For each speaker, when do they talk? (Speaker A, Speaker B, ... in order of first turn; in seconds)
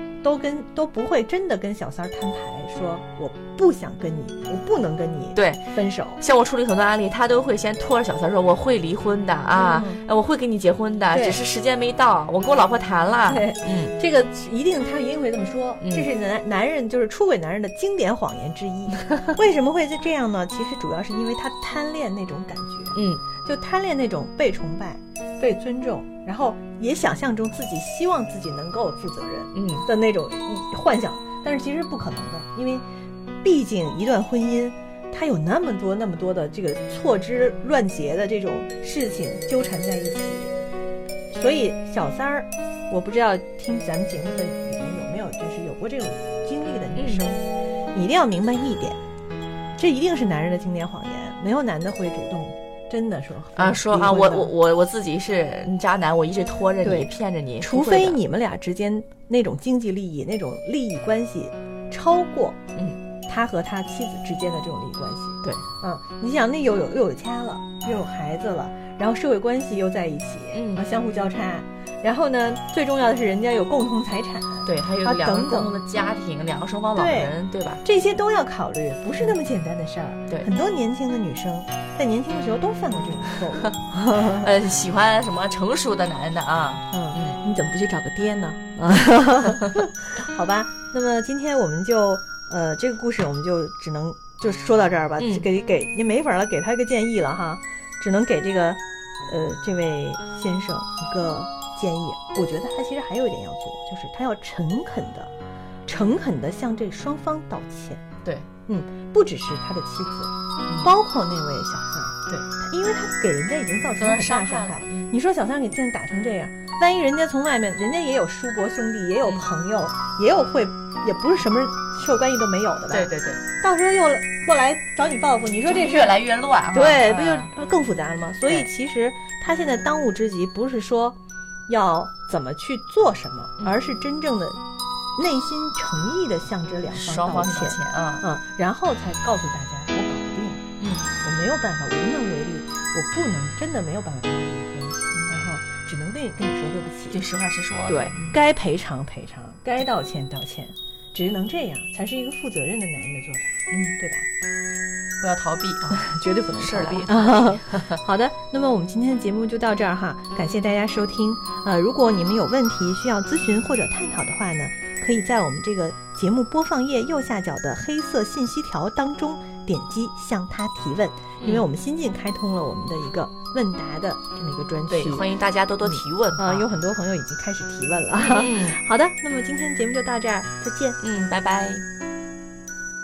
Speaker A: 0.2-6.2, 9.6-10.0, 11.1-11.4, 13.3-32.8, 33.4-40.5, 41.3-47.4, 47.9-49.0, 49.8-54.5, 56.8-62.6, 63.3-75.7, 76.9-84.5, 86.9-105.3, 105.9-108.0, 108.7-126.2, 126.7-131.2, 131.7-134.6, 135.2-140.6, 141.2-147.2, 147.9-154.3, 155.9-175.2, 175.8-181.0
Speaker B: 5.3-5.6, 6.2-13.9, 15.8-16.1, 22.9-23.2, 29.5-29.9, 47.0-47.2, 53.5-58.2, 70.5-70.8, 74.6-77.8, 84.2-87.4, 95.2-95.5, 114.0-115.1, 122.9-123.4, 125.6-127.5, 136.9-138.2, 140.8-141.1, 147.1-148.4, 153.7-154.0, 155.2-156.0, 156.5-158.0, 174.9-176.6, 178.2-178.8, 181.0-181.8